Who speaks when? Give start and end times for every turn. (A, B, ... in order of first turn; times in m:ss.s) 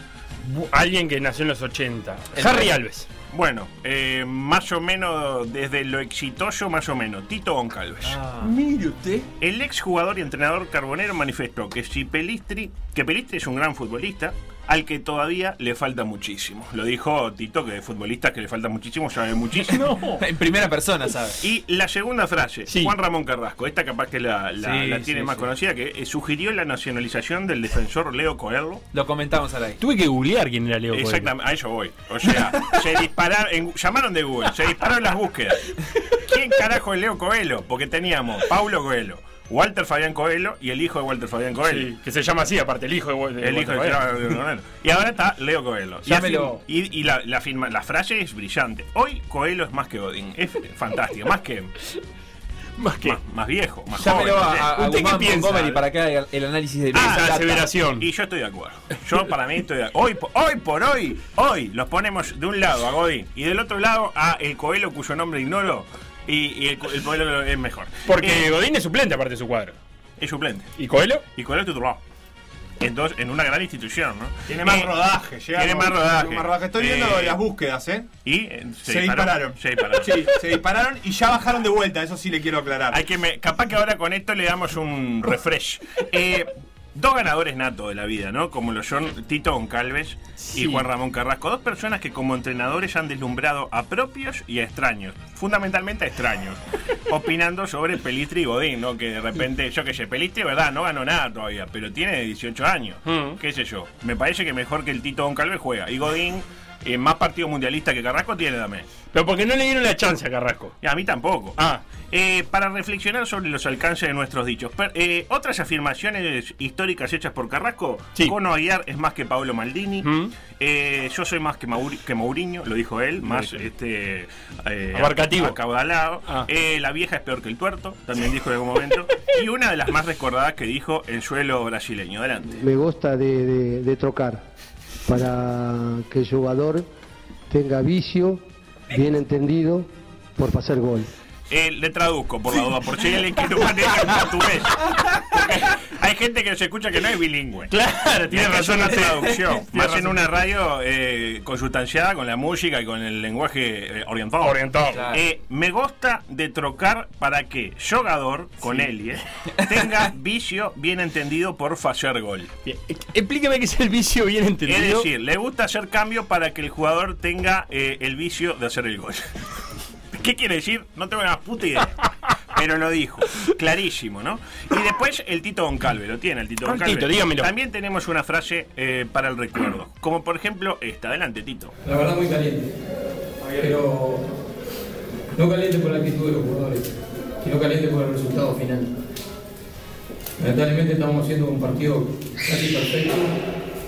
0:00.6-0:03.1 A
0:02.4-0:02.7 B
0:03.3-0:08.2 C
0:08.0-0:08.5 B
0:08.4-0:09.2 A
0:09.4-0:20.0 C
0:19.8-0:20.2 A
0:20.1-0:21.4 B
0:21.4-0:28.8 C
0:22.7-0:22.9 A
0:24.6-0:25.4 B
0:28.9-0:29.8 B
0:29.8-0:31.3 A
0:30.9-0:41.9 C
0:41.6-0:44.1 A
0:43.4-0:51.7 C
0:46.0-0:46.6 B
0:52.8-0:53.2 A
0:53.0-0:54.7 C
0:54.0-0:57.7 B
0:54.6-0:55.8 A
0:56.9-1:08.5 C
0:57.0-0:58.1 A
1:08.0-1:09.8 A
1:10.2-1:10.7 C
1:10.8-1:11.2 A
1:11.3-1:12.0 C
1:12.8-1:14.9 C
1:14.5-1:18.1 D
1:15.5-1:17.4 C
1:18.2-1:20.4 C
1:18.8-1:23.0 D
1:22.9-1:48.9 C
1:30.4-1:30.8 A
1:43.0-1:43.4 A
1:49.1-1:50.7 A
1:50.8-1:51.6 C
1:51.6-1:51.8 A
1:52.1-2:12.6 C
2:00.0-2:00.3 A
2:03.2-2:03.6 A
2:04.9-2:05.6 A
2:12.6-2:14.4 E
2:15.0-2:16.9 E
2:17.5-2:21.1 E
2:21.5-2:27.7 C
2:27.7-2:30.2 A
2:28.3-2:42.5 C
2:34.4-2:35.1 A
2:34.9-2:35.2 B
2:42.6-2:45.1 A
2:44.6-2:49.3 C
2:50.1-2:52.0 C
2:52.5-3:01.7 C
2:56.6-2:57.5 A
3:01.8-3:02.7 F
3:03.6-3:04.2 F
3:05.4-3:06.9 F
3:07.4-3:08.9 F
3:10.4-3:13.3 F